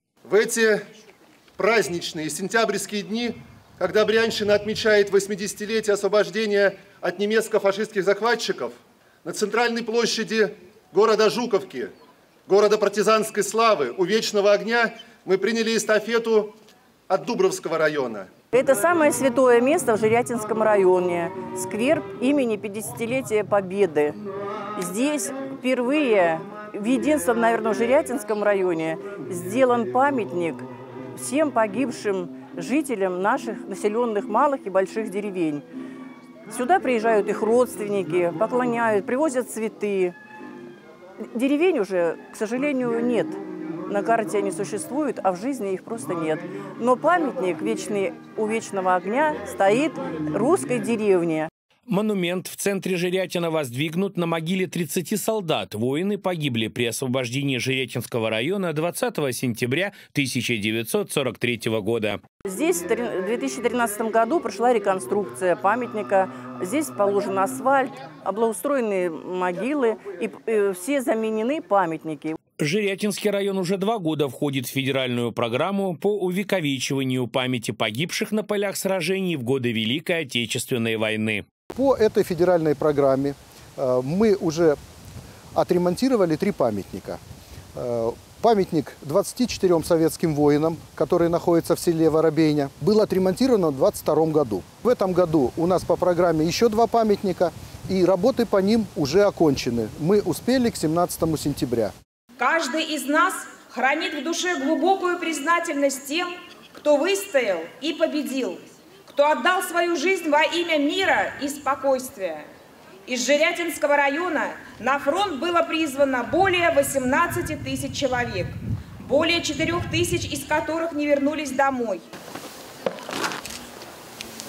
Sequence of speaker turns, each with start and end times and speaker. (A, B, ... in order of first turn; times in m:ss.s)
0:00.2-0:00.8 A
0:01.6-0:11.9 A
0:12.5-0:16.6 A
0:17.1-0:18.3 A
0:18.5-0:24.2 B
0:24.8-0:35.6 B
0:36.5-0:40.2 B
0:41.3-0:51.5 B
0:51.9-1:02.2 C
1:02.4-1:12.4 B
1:12.6-1:21.4 C
1:21.7-1:24.8 D
1:25.6-1:27.2 D
1:27.8-1:41.9 D
1:42.4-1:52.4 E
1:53.1-2:02.0 E